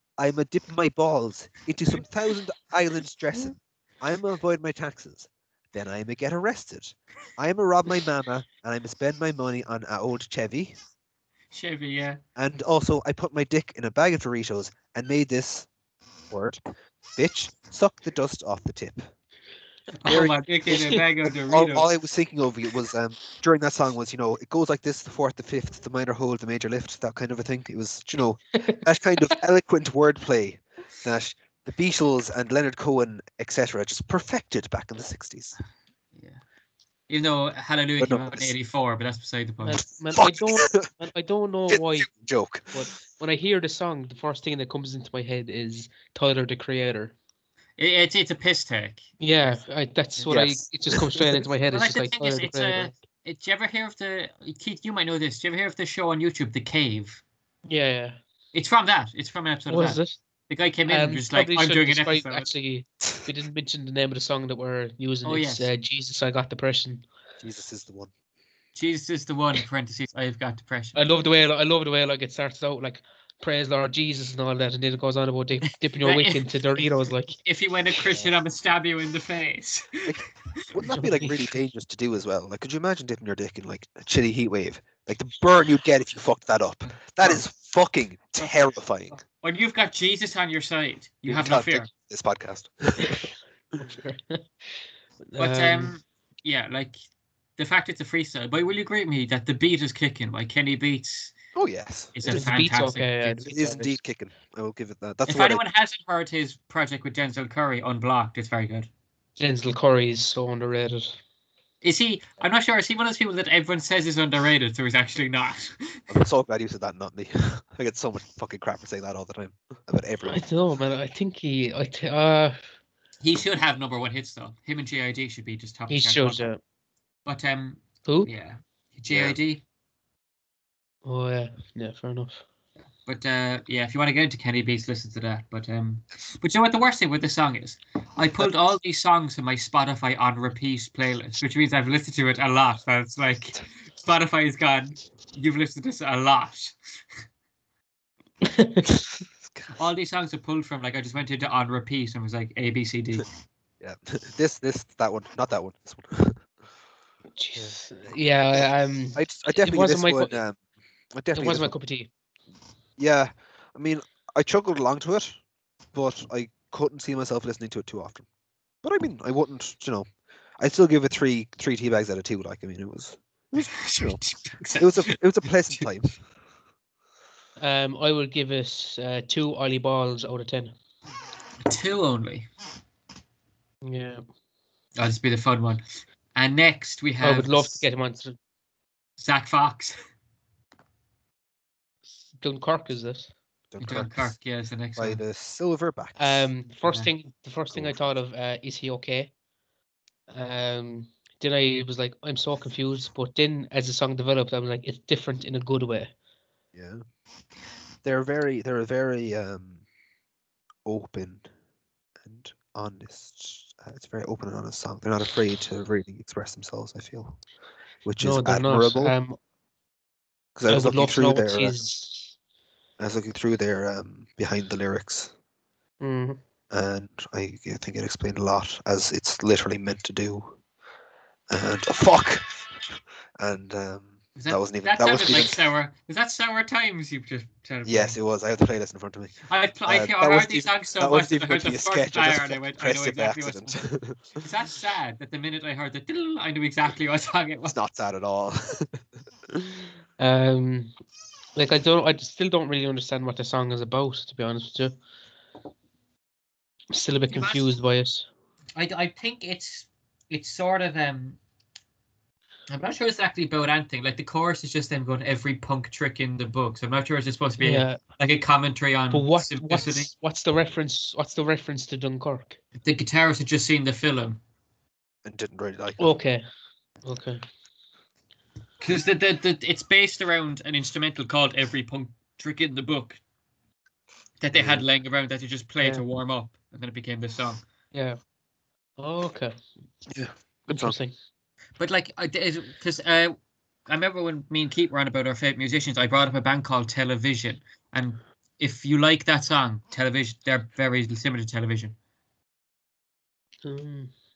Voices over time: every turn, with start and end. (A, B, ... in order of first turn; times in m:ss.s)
0:00.2-0:10.8 A
0:11.5-0:12.2 B
0:12.4-0:15.7 A
0:16.3-0:16.6 A
0:17.2-0:19.1 A
0:20.0-0:21.9 B
0:20.1-0:20.4 A
0:20.7-0:21.0 C
0:21.5-0:35.6 A
0:36.1-0:36.4 B
0:37.1-0:39.8 B
0:38.0-0:38.5 A
0:39.6-0:42.1 C
0:40.1-0:40.9 A
0:41.7-0:42.8 A
0:42.7-0:47.1 C
0:47.8-0:49.0 B
0:49.2-0:53.0 C
0:50.3-0:50.6 A
0:51.7-0:57.2 B
0:57.7-0:58.2 C
0:58.5-1:02.5 B
0:59.7-1:00.2 C
1:00.9-1:07.0 C
1:05.2-1:05.7 B
1:07.4-1:08.1 A
1:08.8-1:11.0 B
1:10.9-1:17.4 C
1:16.0-1:16.4 B
1:17.4-1:20.2 B
1:18.0-1:18.3 A
1:20.0-1:29.2 A
1:20.8-1:21.4 C
1:29.1-1:31.9 B
1:31.2-1:33.2 A
1:33.8-1:34.5 C
1:35.3-1:35.9 C
1:35.4-1:37.0 B
1:37.6-1:41.3 B
1:41.5-1:42.5 A
1:42.2-1:43.6 B
1:42.3-1:43.9 C
1:43.4-1:45.6 A
1:45.2-1:48.9 B
1:49.4-1:51.2 C
1:51.8-1:56.0 B
1:56.1-2:00.4 A
2:00.2-2:02.6 C
2:03.2-2:06.5 B
2:05.9-2:06.6 C
2:07.2-2:09.6 B
2:09.1-2:09.4 A
2:11.0-2:12.4 C
2:13.0-2:26.7 B
2:28.4-2:29.0 C
2:29.5-2:29.7 A
2:29.8-2:33.3 B
2:33.8-2:36.4 A
2:37.4-2:40.4 C
2:39.2-2:40.6 A
2:41.1-2:41.7 A
2:41.3-2:42.1 C
2:43.0-2:45.4 A
2:45.9-2:48.2 A
2:48.8-2:50.1 A
2:50.6-2:54.2 A
2:53.6-2:55.2 B
2:54.8-2:56.2 A
2:57.6-3:00.7 C
3:01.6-3:02.5 B
3:03.8-3:04.2 C
3:05.0-3:05.8 B
3:06.3-3:07.8 B
3:07.2-3:08.4 C
3:09.2-3:10.0 B
3:12.2-3:13.3 C
3:13.7-3:14.3 A
3:13.8-3:15.2 B
3:15.0-3:16.5 A
3:16.2-3:19.3 C
3:17.7-3:18.1 A
3:20.3-3:26.1 C
3:26.7-3:27.0 A
3:28.0-3:29.8 A
3:30.8-3:31.4 A
3:32.2-3:37.4 A
3:38.0-3:39.1 A
3:38.2-3:39.4 C
3:40.6-3:41.7 A
3:40.7-3:42.3 C
3:43.0-3:45.3 A
3:46.0-3:46.4 C
3:46.7-3:50.6 A
3:51.5-3:55.6 A
3:54.4-3:58.2 B
3:57.8-3:59.3 A
3:59.5-4:03.8 B
3:59.9-4:04.4 A
4:04.4-4:07.8 B
4:07.7-4:09.8 A
4:10.2-4:10.9 C
4:11.6-4:15.0 C
4:16.9-4:18.3 C
4:17.3-4:17.6 B
4:18.8-4:21.4 B
4:22.7-4:30.1 B
4:27.6-4:28.0 C
4:29.1-4:32.6 C
4:32.8-4:34.4 B
4:35.2-4:36.0 A
4:36.0-4:36.4 C
4:37.0-4:37.4 C
4:38.8-4:43.2 B
4:44.4-4:47.6 B
4:44.5-4:44.9 A
4:47.9-4:48.2 C
4:49.0-4:49.5 C
4:50.1-4:51.0 A
4:50.7-4:51.1 C
4:51.8-4:53.3 B
4:53.9-5:02.0 B
5:03.6-5:04.1 C